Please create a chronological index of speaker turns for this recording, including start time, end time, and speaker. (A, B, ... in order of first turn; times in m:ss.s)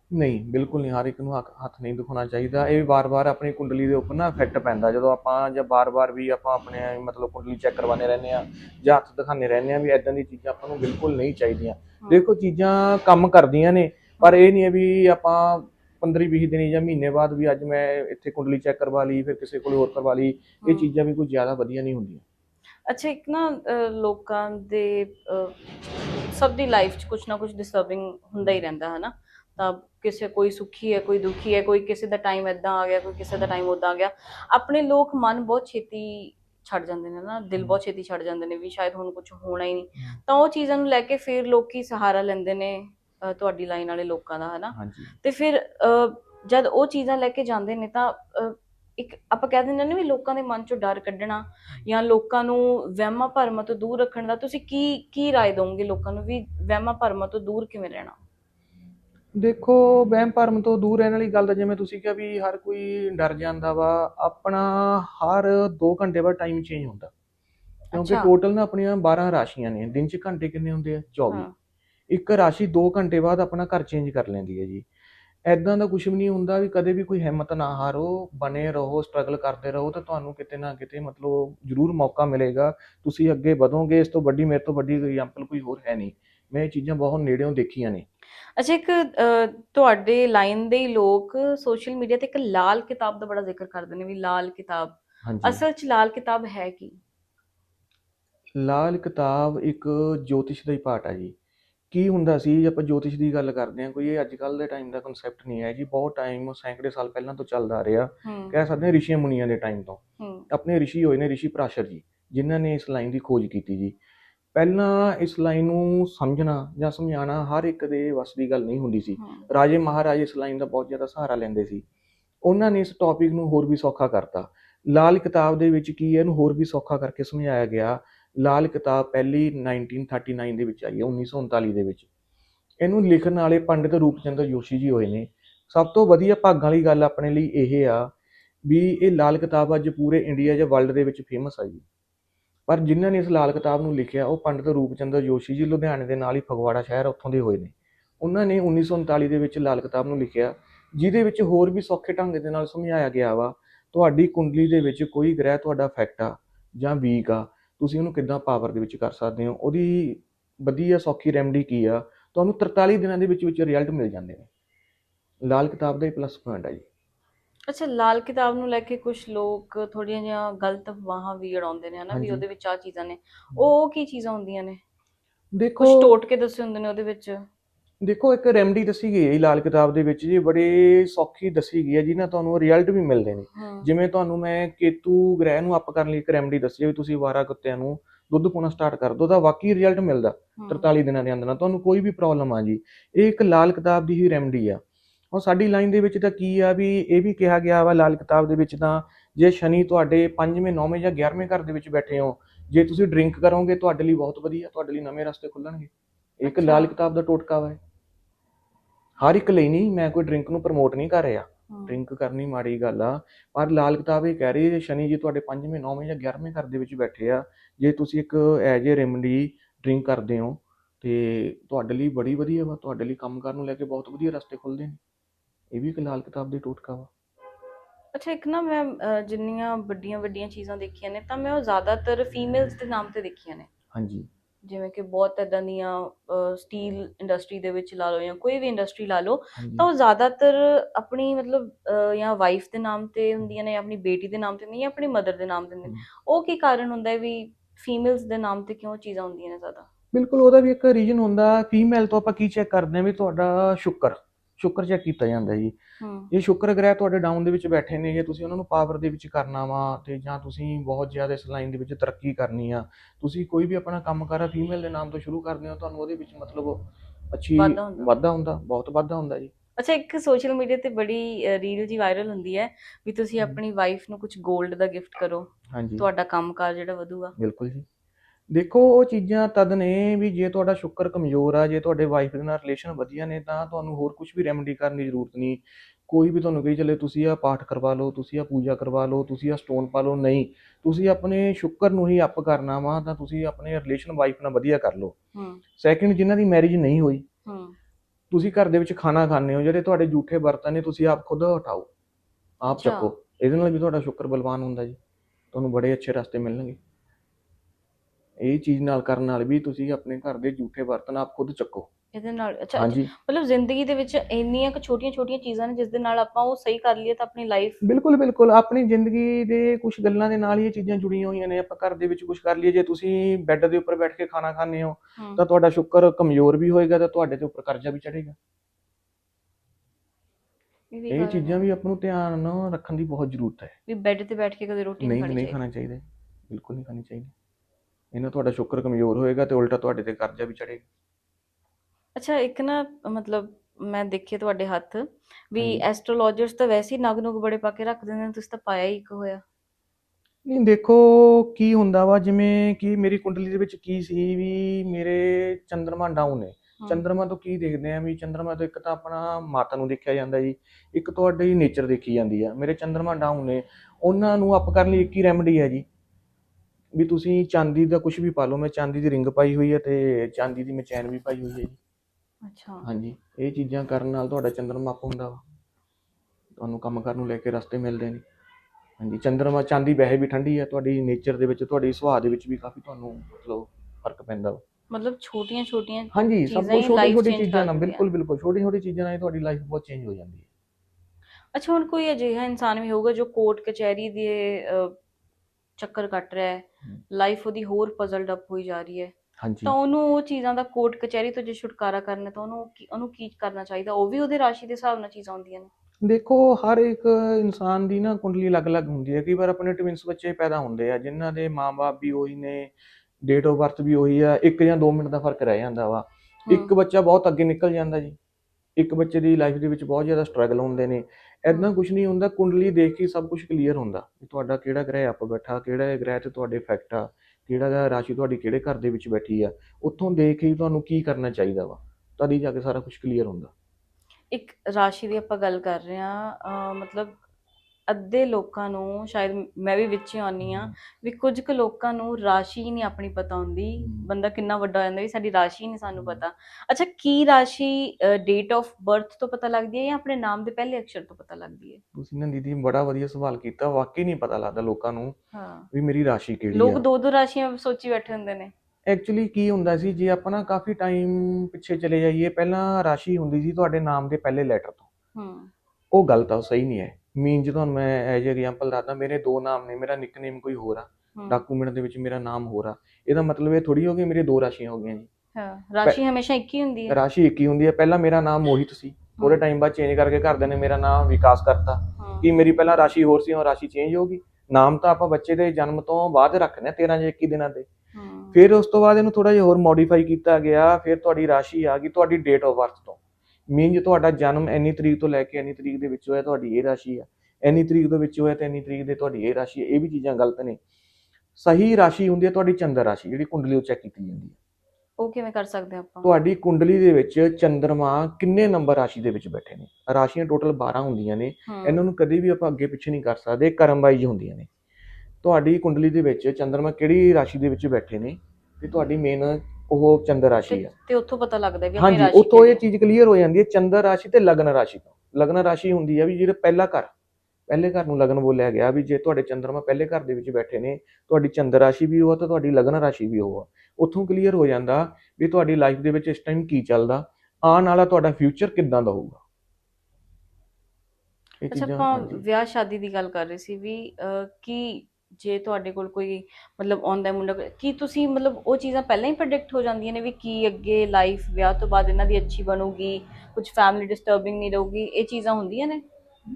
0:00.1-0:22.2 A
0:20.6-0:20.9 B
0:22.9-0:58.2 B
0:44.7-0:45.1 A
0:59.4-1:07.1 A
1:07.9-1:08.3 B
1:07.9-1:11.5 A
1:12.1-1:14.8 A
1:15.5-1:28.0 A
1:28.6-1:37.0 B
1:35.2-1:35.6 A
1:38.5-1:41.3 A
1:41.9-1:53.9 A
1:48.2-1:48.6 B
1:50.2-1:50.5 B
1:54.5-2:01.8 A
1:59.2-1:59.5 B
2:02.4-2:12.1 A
2:12.8-2:18.1 A
2:18.6-2:21.8 A
2:22.7-2:44.5 A
2:45.4-2:46.8 A
2:47.7-2:54.8 B
2:52.1-2:52.4 A
2:55.5-2:56.1 A
2:55.8-2:57.4 B
2:58.0-3:27.8 A
3:03.5-3:03.9 B
3:10.6-3:10.9 B
3:26.4-3:26.9 B
3:29.2-3:45.0 A
3:31.7-3:32.0 B
3:45.7-3:47.1 A
3:48.1-3:53.7 B
3:53.9-3:54.3 A
3:54.6-4:09.9 B
3:59.6-3:59.9 A
4:10.1-4:15.7 A
4:16.0-4:16.3 B
4:16.3-4:29.5 A
4:27.6-4:28.1 B
4:29.8-4:37.3 B
4:35.7-4:36.0 A
4:37.4-4:37.8 A
4:38.5-4:55.1 A
4:55.3-4:55.6 B
4:55.8-4:57.2 A
4:57.4-4:57.8 B
4:58.3-5:01.9 A
5:02.6-5:05.0 A
5:02.8-5:03.1 B
5:05.5-5:06.8 A
5:08.4-5:11.9 A
5:12.1-5:17.8 B
5:12.8-5:13.1 A
5:17.8-5:28.4 A
5:25.2-5:25.4 B
5:30.9-5:31.6 B
5:31.1-5:33.7 A
5:33.9-5:35.6 B
5:35.0-5:37.3 A
5:38.1-5:40.8 A
5:42.2-5:49.4 B
5:50.4-6:05.8 A
6:06.9-6:11.8 A
6:12.4-6:12.9 B
6:12.8-6:15.4 A
6:16.6-6:18.2 A
6:19.0-6:24.6 A
6:24.9-6:28.0 B
6:26.1-6:30.4 A
6:31.5-6:35.0 B
6:35.8-6:39.1 B
6:39.4-6:39.7 A
6:39.6-6:45.7 B
6:46.0-6:58.2 A
6:58.8-7:13.5 A
7:14.3-7:17.2 B
7:17.9-7:31.8 B
7:20.4-7:20.7 A
7:23.8-7:24.1 A
7:26.0-7:26.2 A
7:31.9-7:35.2 A
7:35.3-7:35.7 B
7:35.7-7:36.8 A
7:36.5-7:38.5 B
7:38.9-7:44.9 A
7:45.1-7:45.5 B
7:45.9-7:55.1 A
7:51.2-7:51.4 B
7:55.3-7:57.0 B
7:56.9-8:07.7 A
8:02.0-8:02.3 B
8:07.9-8:08.4 B
8:08.3-8:13.0 A
8:13.5-8:20.6 A
8:21.4-8:24.4 A
8:25.0-8:26.2 B
8:26.0-8:34.5 A
8:31.5-8:31.8 B
8:35.2-8:40.7 A
8:40.5-8:42.6 B
8:41.8-8:46.9 A
8:47.5-8:59.2 A
9:01.4-9:02.2 A
9:01.5-9:15.8 B